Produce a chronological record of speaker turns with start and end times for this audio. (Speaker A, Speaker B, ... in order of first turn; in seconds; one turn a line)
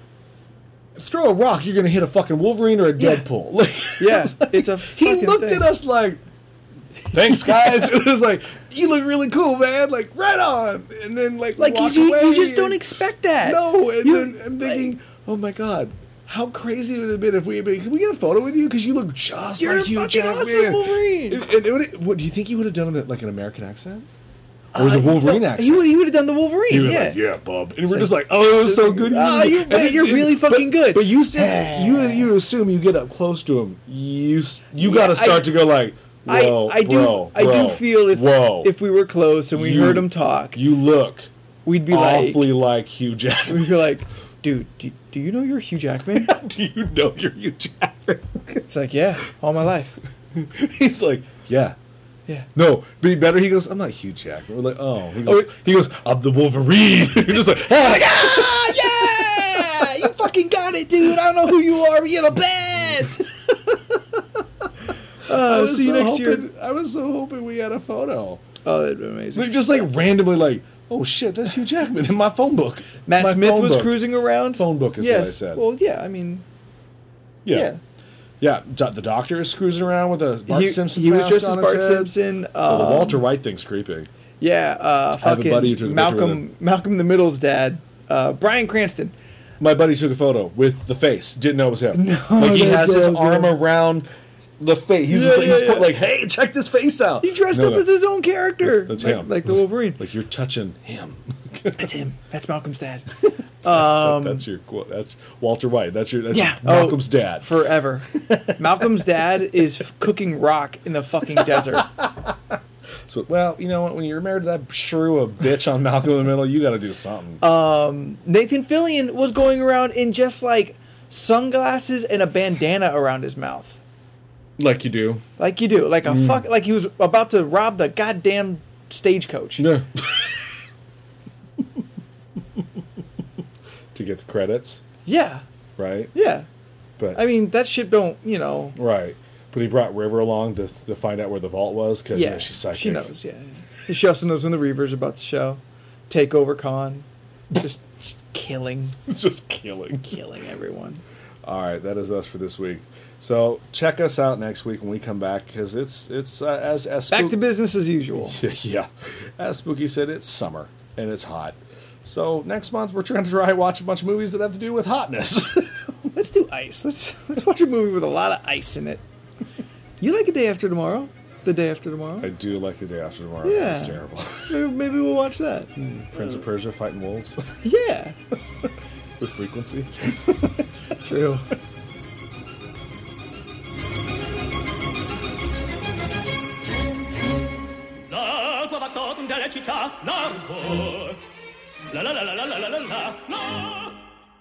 Speaker A: 0.9-6.2
Speaker B: 3.0-3.2
Speaker B: 4.0-5.7
Speaker A: 7.1-12.8
Speaker B: 7.3-7.8
Speaker B: 11.6-14.9
Speaker A: 13.4-24.1
Speaker B: 19.6-21.4
Speaker B: 24.7-27.2
Speaker A: 24.7-25.8
Speaker A: 26.7-38.7
Speaker B: 27.9-32.3
Speaker B: 34.8-35.5
Speaker B: 36.2-40.6
Speaker A: 39.5-41.3
Speaker B: 41.6-42.5
Speaker A: 41.9-43.8
Speaker B: 43.5-46.3
Speaker A: 46.1-48.6
Speaker B: 48.7-50.0
Speaker A: 50.3-51.8
Speaker A: 52.5-61.6
Speaker B: 55.2-55.5
Speaker B: 58.0-63.2
Speaker A: 62.8-63.8
Speaker B: 65.2-66.5
Speaker A: 65.3-68.4
Speaker B: 68.6-69.6
Speaker A: 69.3-75.6
Speaker B: 73.0-76.4
Speaker A: 77.4-77.7
Speaker B: 77.5-77.8
Speaker A: 78.4-82.1
Speaker B: 80.5-83.2
Speaker A: 82.6-84.1
Speaker B: 84.4-89.1
Speaker A: 85.2-86.4
Speaker A: 89.6-94.1
Speaker B: 91.9-93.5
Speaker A: 94.6-97.8
Speaker B: 95.1-96.0
Speaker B: 97.2-100.0
Speaker A: 98.6-101.9
Speaker B: 101.8-103.1
Speaker B: 103.6-104.4
Speaker A: 103.6-107.5
Speaker B: 106.3-111.9
Speaker A: 108.1-108.8
Speaker A: 111.4-112.3
Speaker A: 113.0-117.4
Speaker B: 117.4-123.8
Speaker A: 124.6-125.2
Speaker B: 125.4-129.7
Speaker A: 126.0-126.4
Speaker A: 129.6-130.5
Speaker A: 133.9-134.8
Speaker B: 135.1-135.4
Speaker A: 135.8-136.1
Speaker B: 136.1-136.5
Speaker B: 137.1-138.8
Speaker A: 138.8-143.1
Speaker B: 142.1-149.0
Speaker A: 149.1-150.2
Speaker B: 150.1-151.0
Speaker A: 151.4-157.4
Speaker B: 157.1-158.4
Speaker A: 158.2-166.1
Speaker B: 166.1-169.0
Speaker B: 170.0-172.3
Speaker A: 172.2-174.5
Speaker B: 173.4-175.7
Speaker A: 175.8-177.6
Speaker B: 177.6-178.2
Speaker A: 179.2-180.6
Speaker B: 181.0-181.5
Speaker C: 188.1-191.2
Speaker C: 191.9-194.0